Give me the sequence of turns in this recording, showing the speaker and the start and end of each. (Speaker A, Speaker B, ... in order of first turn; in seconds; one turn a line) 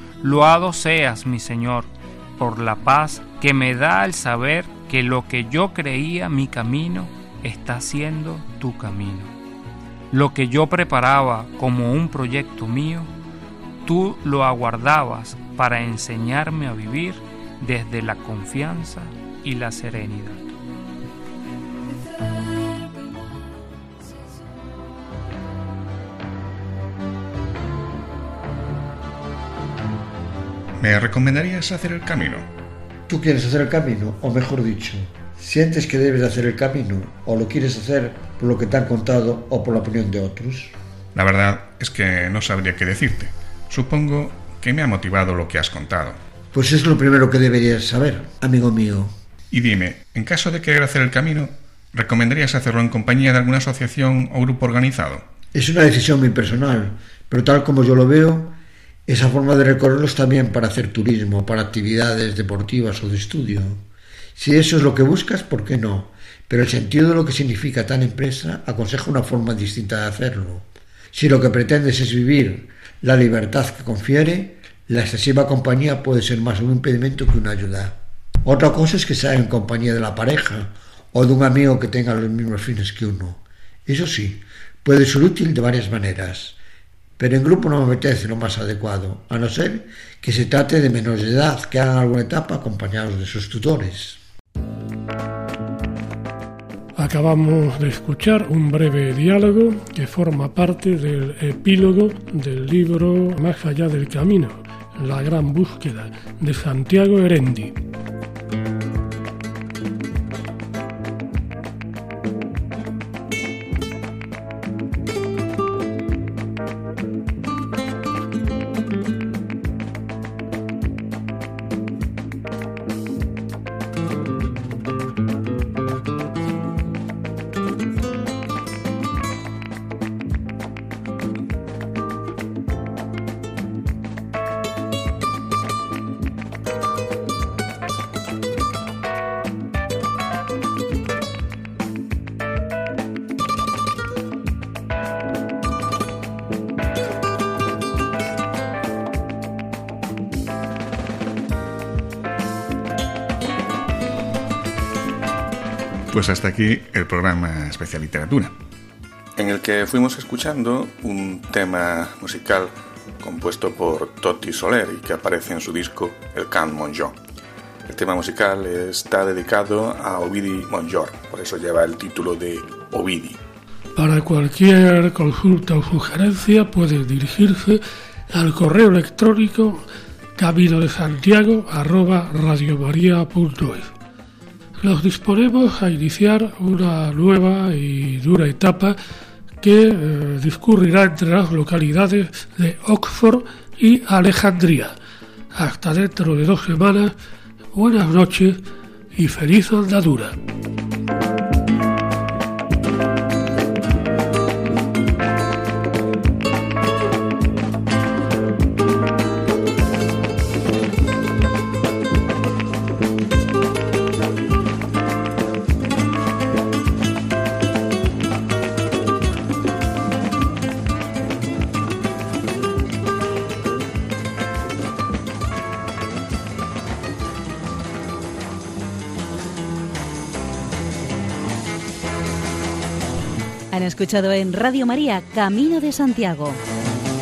Speaker A: 0.2-9.3
Speaker A: 10.1-13.1
Speaker A: 13.8-20.5
Speaker B: 30.8-32.5
Speaker C: 33.1-40.7
Speaker B: 41.1-46.2
Speaker C: 46.5-49.1
Speaker B: 49.5-55.3
Speaker C: 55.5-58.5
Speaker C: 59.1-63.8
Speaker C: 64.3-86.5
Speaker C: 87.2-94.2
Speaker D: 97.0-107.8
Speaker B: 156.1-158.5
Speaker B: 159.3-167.2
Speaker B: 167.8-173.4
Speaker D: 173.9-179.8
Speaker D: 180.4-183.9
Speaker D: 184.8-188.9
Speaker D: 189.6-194.9
Speaker D: 195.5-197.1
Speaker D: 197.7-200.4
Speaker E: 233.7-236.6